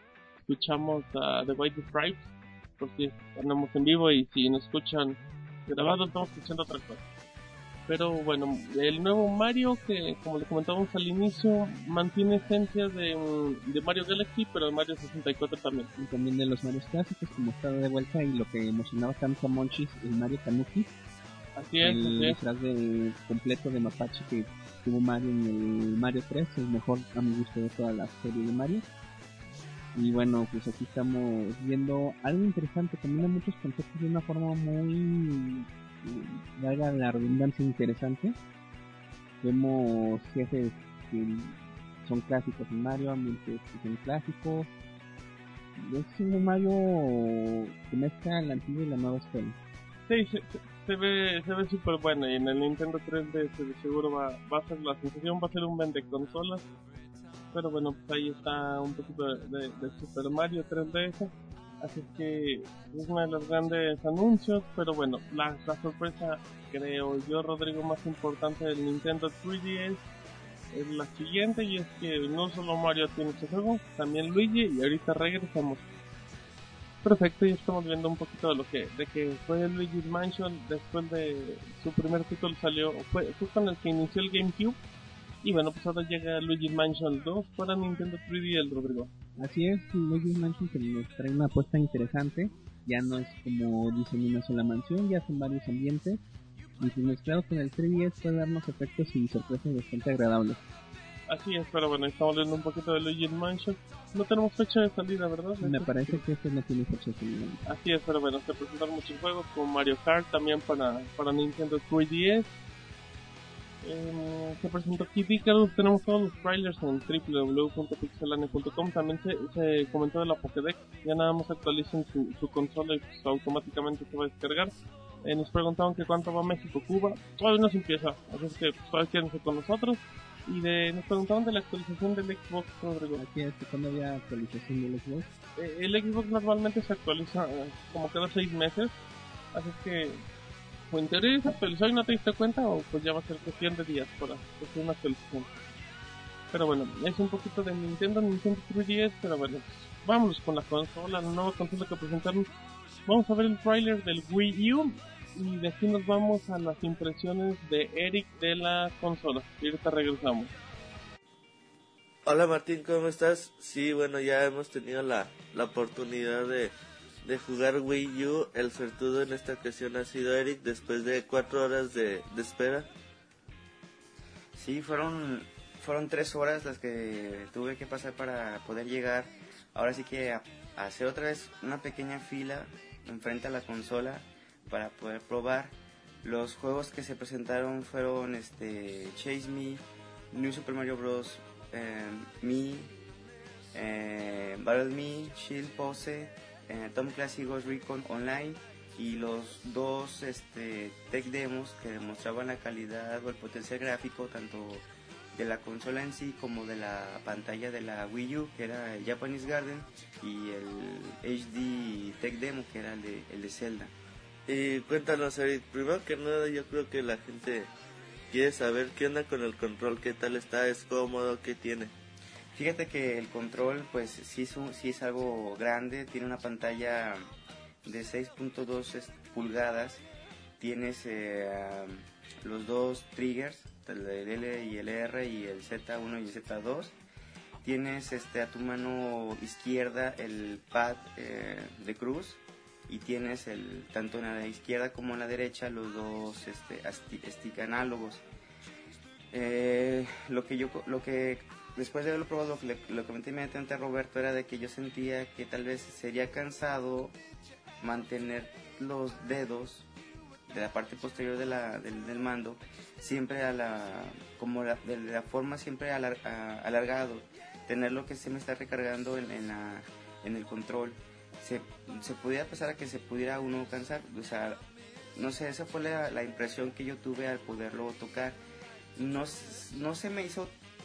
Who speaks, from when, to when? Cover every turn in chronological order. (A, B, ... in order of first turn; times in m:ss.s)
0:00.4-0:07.0 A
0:07.9-0:15.9 A
0:16.0-0:20.9 B
0:21.6-0:22.4 A
0:21.8-0:28.9 B
0:29.9-0:38.4 B
0:39.4-0:44.7 B
0:45.8-0:49.6 B
0:50.1-0:56.7 A
0:57.5-1:10.0 A
1:10.7-1:15.8 A
1:17.0-1:24.8 A
1:25.4-1:29.1 A
1:29.4-1:36.2 B
1:36.8-1:40.6 B
1:41.3-1:46.2 A
1:45.6-1:47.6 B
1:47.7-1:52.5 A
1:53.8-2:04.7 A
2:05.2-2:13.2 A
2:13.2-2:15.3 B
2:15.6-2:19.0 A
2:19.5-2:20.2 A
2:20.9-2:25.5 A
2:26.5-2:32.5 A
2:33.1-2:40.5 A
2:42.3-2:46.7 C
2:47.2-2:52.9 C
2:54.6-3:12.9 D
3:13.7-3:33.9 D
3:34.5-3:37.7 C
3:38.3-3:41.9 C
3:42.6-3:47.2 D
3:47.8-3:50.0 D
3:50.6-3:57.0 D
3:57.6-4:08.2 D
4:09.3-4:17.1 D
4:17.8-4:19.9 D
4:20.5-4:34.6 D
4:35.2-4:38.4 D
4:39.0-4:40.5 D